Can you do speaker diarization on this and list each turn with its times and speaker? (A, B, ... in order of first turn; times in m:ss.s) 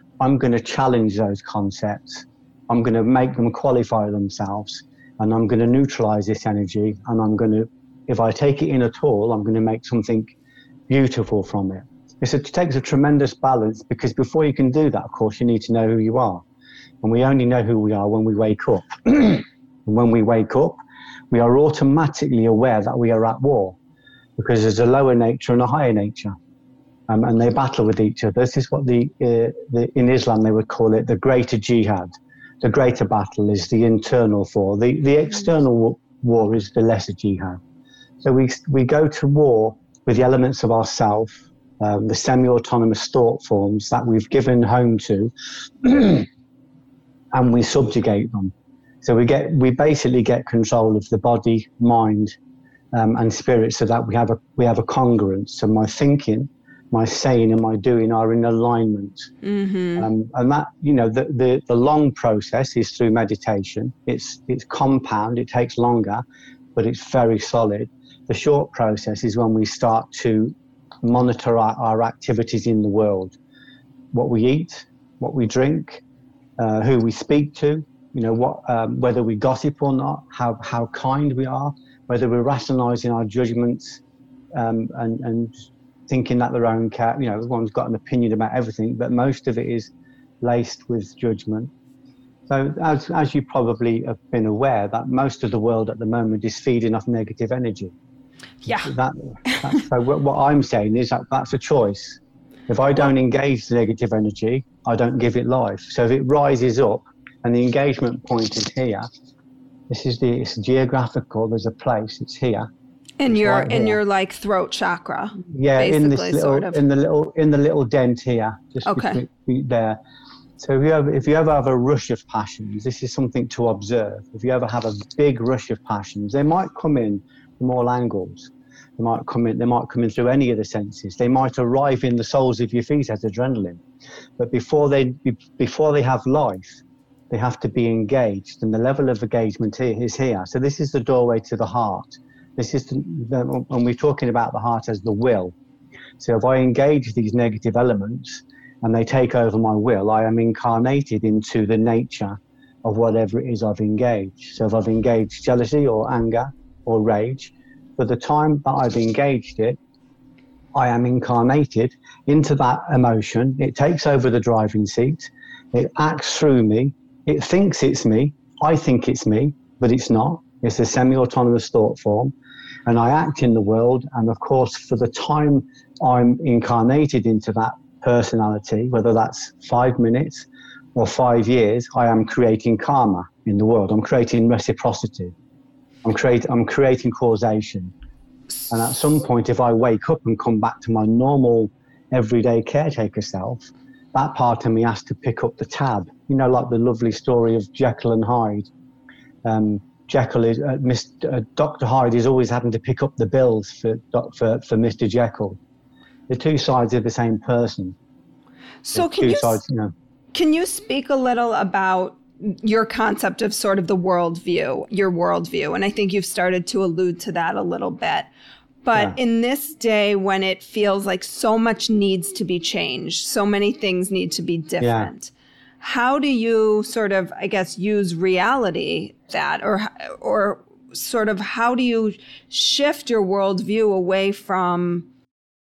0:00.2-0:10.3 A
0:10.9-0:16.5 A
0:17.0-0:20.8 A
0:21.3-0:23.8 A
0:24.4-0:26.4 A
0:27.1-0:32.1 A
0:32.6-0:37.6 A
0:38.2-0:45.3 A
0:45.8-0:46.3 A
0:47.3-0:52.4 A
0:52.9-0:59.3 A
0:59.4-1:00.1 B
1:00.0-1:06.2 A
1:06.8-1:13.4 A
1:14.1-1:16.0 A
1:16.6-1:24.0 A
1:24.6-1:25.5 A
1:26.1-1:31.7 A
1:32.5-1:37.9 A
1:38.6-1:38.9 B
1:38.8-1:49.1 A
1:49.9-1:52.7 A
1:53.2-1:56.8 B
1:53.3-1:54.0 A
1:55.4-2:00.0 A
1:58.8-1:59.2 B
2:00.6-2:13.8 A
2:14.4-2:25.5 A
2:26.2-2:39.8 A
2:40.7-2:52.3 A
2:52.9-3:05.4 A
3:06.0-3:07.9 A
3:08.7-3:18.7 A
3:19.4-3:25.6 A
3:26.3-3:28.0 A
3:28.8-3:29.6 B
3:28.9-3:29.9 A
3:30.3-3:38.3 B
3:38.8-3:55.1 B
3:44.8-3:45.1 A